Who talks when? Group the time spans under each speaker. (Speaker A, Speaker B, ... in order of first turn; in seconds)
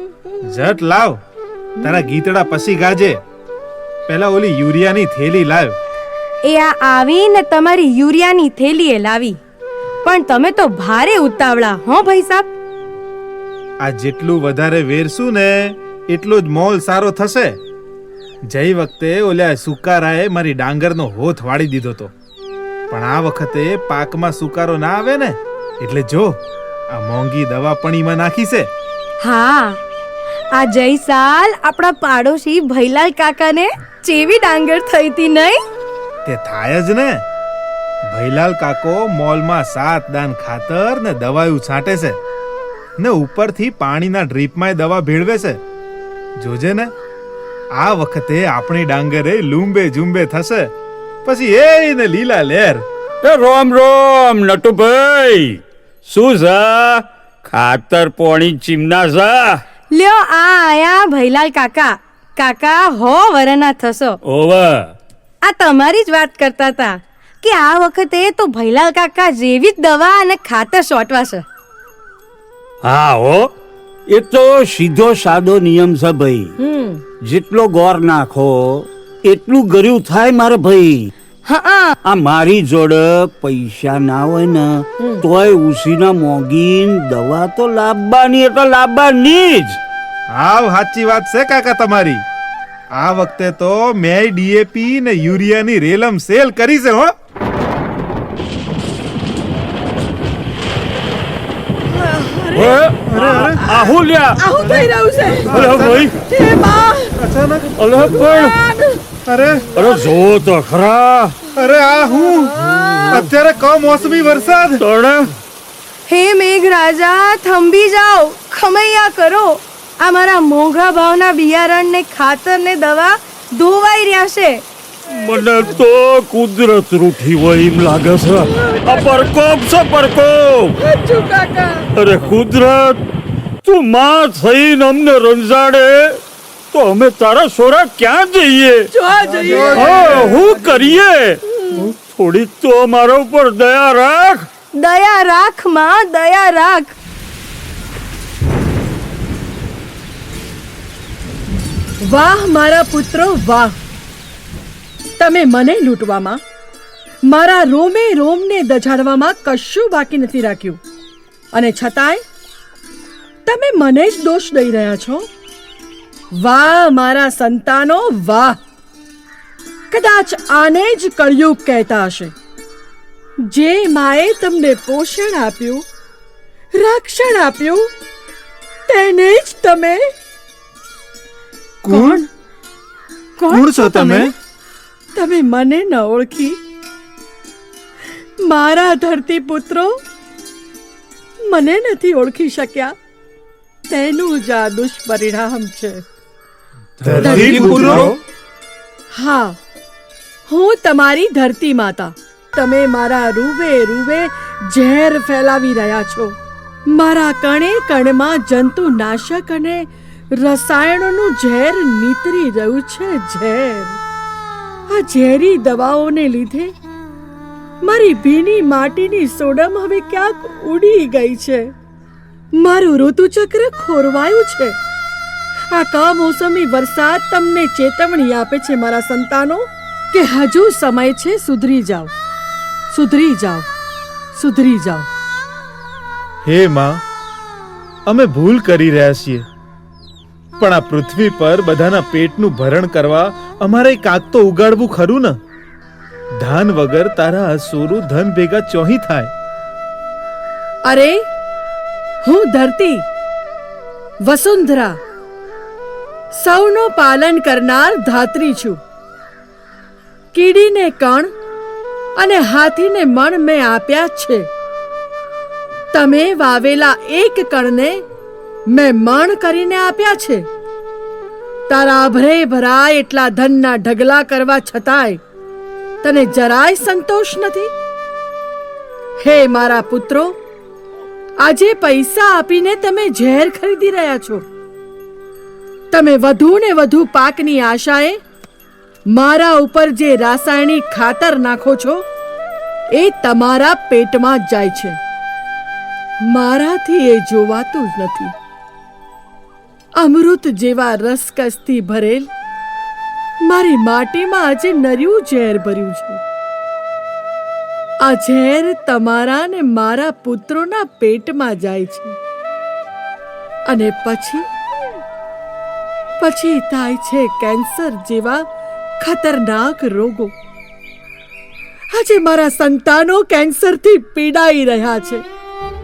Speaker A: 0.5-1.2, 1.8-3.2, 4.1-5.8, 13.8-17.6, 18.5-22.1, 22.9-26.3, 26.9-28.7, 36.2-37.2, 38.1-42.2, 43.0-45.6, 46.4-46.9, 47.7-50.7, 51.2-52.8, 90.3-92.2, 92.9-97.1, 103.1-103.6, 104.6-104.9, 105.5-106.1, 107.2-107.7, 109.2-109.7, 111.5-112.6, 113.1-114.8, 139.5-140.4, 181.8-182.2, 183.5-184.3, 197.0-198.2, 236.4-237.0, 238.1-239.4, 240.6-245.4, 246.4-249.3
Speaker B: 6.4-9.4, 10.0-12.5, 29.2-29.8, 30.5-35.6, 59.9-64.2, 65.4-71.4, 81.5-81.9, 116.1-124.6, 144.7-147.0
Speaker C: 53.2-59.6, 64.2-64.9, 72.8-73.5, 74.1-76.5, 77.2-81.1, 82.0-89.8, 102.5-104.4, 105.5-106.1, 107.8-108.5, 109.7-111.4, 114.8-115.3, 125.1-130.8, 131.9-133.0, 133.6-136.2, 136.7-138.9, 139.6-144.5, 197.0-198.2
Speaker D: 76.6-77.0, 101.8-102.8, 103.4-105.7, 106.2-107.2, 108.0-109.0, 111.8-113.2, 128.3-129.3, 130.8-131.9, 138.9-140.3, 152.0-153.7, 155.2-156.4, 157.2-160.8, 161.5-162.2, 163.4-165.3, 166.3-168.6, 169.9-172.3, 173.4-175.8, 176.7-177.9, 178.9-180.0, 181.9-182.2, 183.4-184.3, 185.1-186.6, 188.4-190.0, 191.4-192.9, 193.9-196.0, 197.2-198.0, 199.1-199.6, 200.5-214.0, 214.9-216.7, 217.8-221.7, 222.5-224.8, 225.7-232.1, 232.9-233.7, 234.3-235.1, 250.8-251.2, 252.2-253.1, 254.2-255.0, 256.3-258.8, 260.3-261.3, 262.1-264.5, 265.9-268.0, 268.7-270.4, 271.7-275.2, 276.0-277.7, 279.2-280.4, 281.4-284.4, 285.9-288.2, 289.1-292.0, 292.9-295.0, 296.2-298.3, 300.0-302.3, 303.4-306.2, 308.0-312.1, 313.6-314.4, 316.2-318.4, 319.0-320.3, 321.9-325.2